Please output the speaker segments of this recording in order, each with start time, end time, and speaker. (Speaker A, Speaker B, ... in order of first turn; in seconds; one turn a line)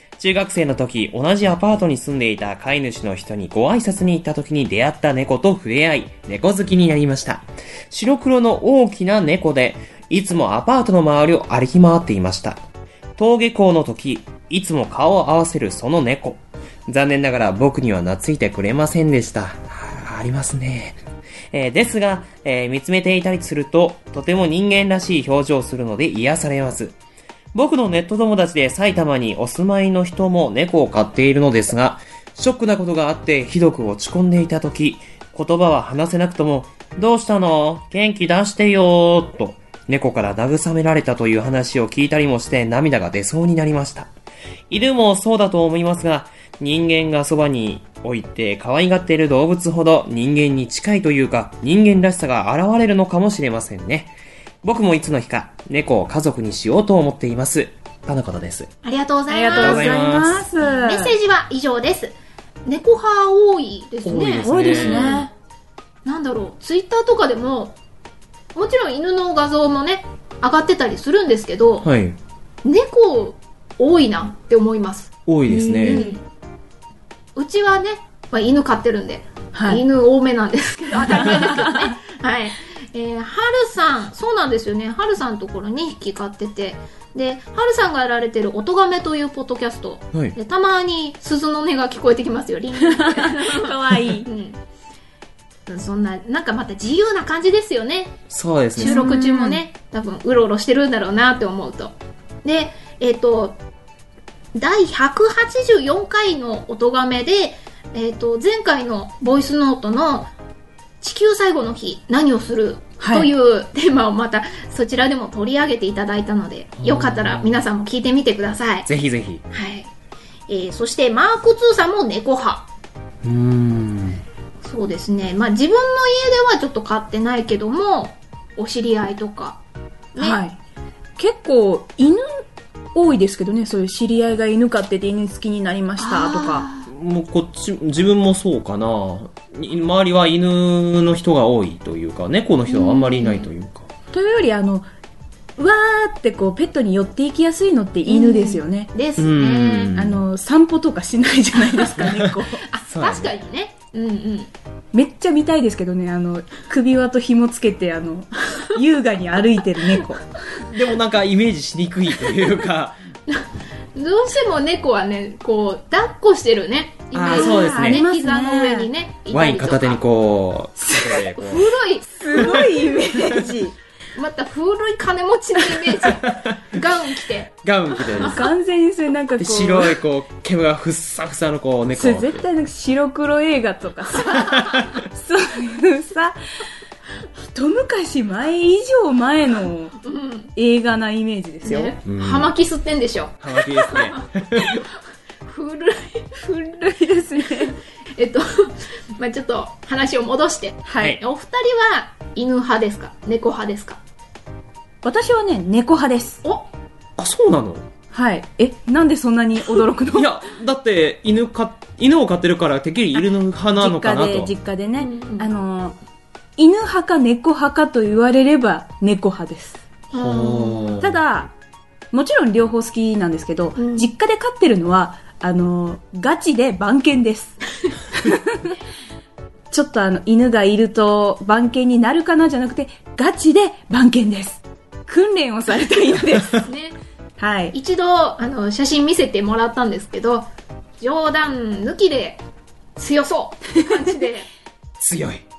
Speaker A: 0.2-12.6
Speaker A: 13.2-21.0
Speaker A: 21.5-27.0
Speaker A: 27.5-44.1
Speaker A: 44.7-58.7
Speaker B: 58.8-60.0
Speaker C: 59.3-61.1
Speaker A: 59.6-60.5
Speaker B: 60.6-65.3
Speaker A: 64.0-65.2
Speaker C: 64.4-65.3
Speaker B: 66.0-67.8
Speaker B: 68.5-71.9
Speaker A: 71.8-72.2
Speaker B: 72.6-75.1
Speaker A: 75.3-76.1
Speaker C: 75.5-76.1
Speaker B: 75.8-76.2
Speaker B: 77.4-94.6
Speaker C: 79.5-79.8
Speaker C: 81.0-81.9
Speaker C: 93.0-94.3
Speaker B: 95.7-98.2
Speaker A: 98.3-99.1
Speaker B: 98.8-103.6
Speaker C: 98.8-99.6
Speaker B: 104.5-110.3
Speaker B: 111.0-118.9
Speaker C: 113.0-113.3
Speaker A: 116.8-117.6
Speaker A: 118.9-119.4
Speaker B: 119.5-119.9
Speaker B: 120.5-122.7
Speaker A: 123.2-124.2
Speaker B: 124.6-129.6
Speaker B: 130.2-130.4
Speaker C: 130.2-130.6
Speaker C: 131.2-132.4
Speaker C: 132.9-136.7
Speaker B: 136.0-136.8
Speaker A: 136.9-143.9
Speaker B: 142.7-143.5
Speaker C: 144.1-144.9
Speaker C: 145.6-148.9
Speaker B: 148.1-150.0
Speaker A: 149.2-150.2
Speaker C: 149.9-152.6
Speaker B: 152.7-154.5
Speaker A: 152.9-153.3
Speaker C: 154.9-160.3
Speaker A: 160.7-163.0
Speaker B: 164.0-170.0
Speaker A: 167.1-168.0
Speaker C: 167.3-168.9
Speaker A: 169.3-171.7
Speaker C: 170.8-171.1
Speaker B: 171.3-172.6
Speaker C: 172.1-173.8
Speaker B: 174.2-178.3
Speaker A: 176.1-176.6
Speaker A: 177.6-178.4
Speaker C: 178.2-180.0
Speaker A: 179.4-182.5
Speaker C: 181.9-186.4
Speaker A: 184.6-184.9
Speaker C: 187.5-189.9
Speaker B: 190.0-190.5
Speaker C: 190.6-191.9
Speaker B: 191.6-194.6
Speaker A: 192.1-192.5
Speaker A: 193.4-194.8
Speaker B: 195.4-196.4
Speaker C: 196.4-197.8
Speaker B: 198.2-204.0
Speaker C: 200.9-201.2
Speaker C: 205.0-206.4
Speaker A: 207.2-207.8
Speaker C: 208.1-210.3
Speaker A: 210.1-214.5
Speaker C: 213.8-216.0
Speaker B: 215.0-215.5
Speaker C: 216.6-219.8
Speaker B: 220.1-221.0
Speaker A: 220.1-221.2
Speaker C: 221.0-221.5
Speaker C: 222.1-227.6
Speaker B: 223.8-224.1
Speaker C: 228.2-228.7
Speaker C: 229.7-236.6
Speaker B: 236.6-237.0
Speaker C: 237.4-237.8
Speaker B: 237.7-240.5
Speaker B: 241.0-242.4
Speaker B: 243.0-244.5
Speaker A: 245.0-245.4